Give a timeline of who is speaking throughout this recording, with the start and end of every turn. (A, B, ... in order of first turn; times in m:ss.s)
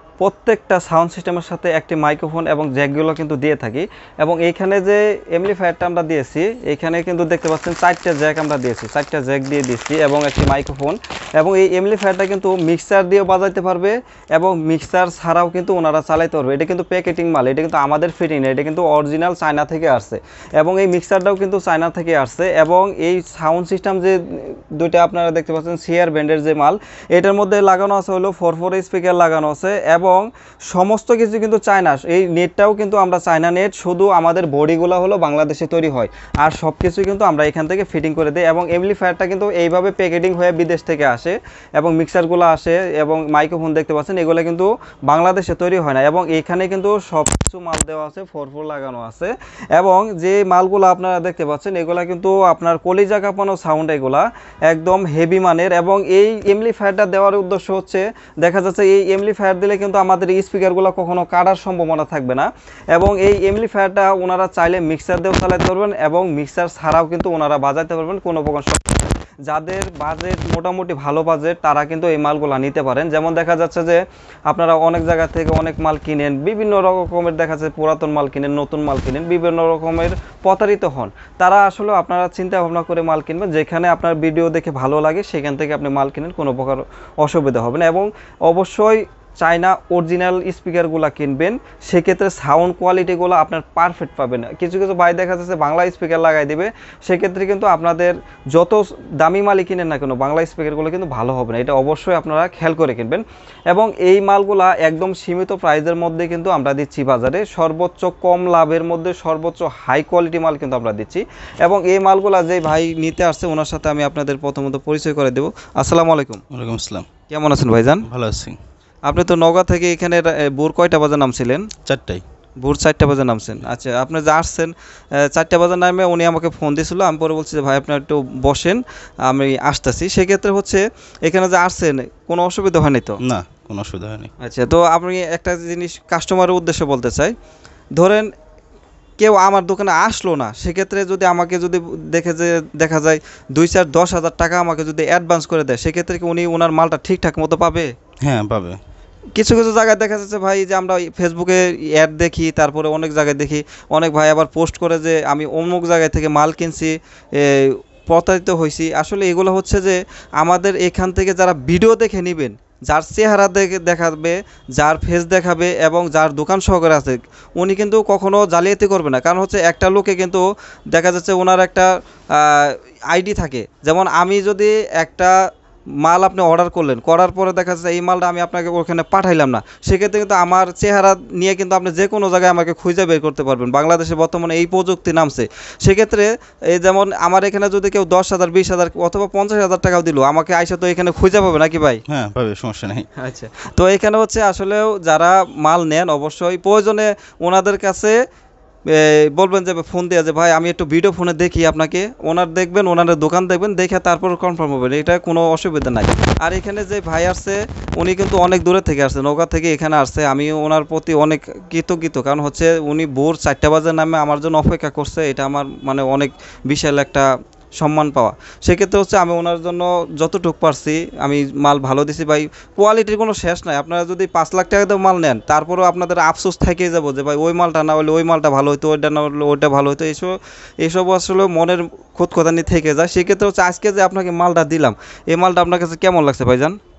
0:00.2-1:56.4 A
1:56.5-1:57.1 B
1:57.3-1:58.0 A
1:58.1-1:58.6 B
1:59.1-2:01.7 A
2:01.8-2:02.2 B
2:02.6-2:13.2 A
2:13.2-2:14.3 B
2:14.4-2:17.3 A
2:18.0-2:18.3 A
2:19.2-2:27.9 A
2:28.2-2:28.8 B
2:29.4-2:55.4 A
2:56.0-3:12.0 A
3:12.1-3:13.1 B
3:13.2-3:18.2 A
3:18.9-3:56.8 A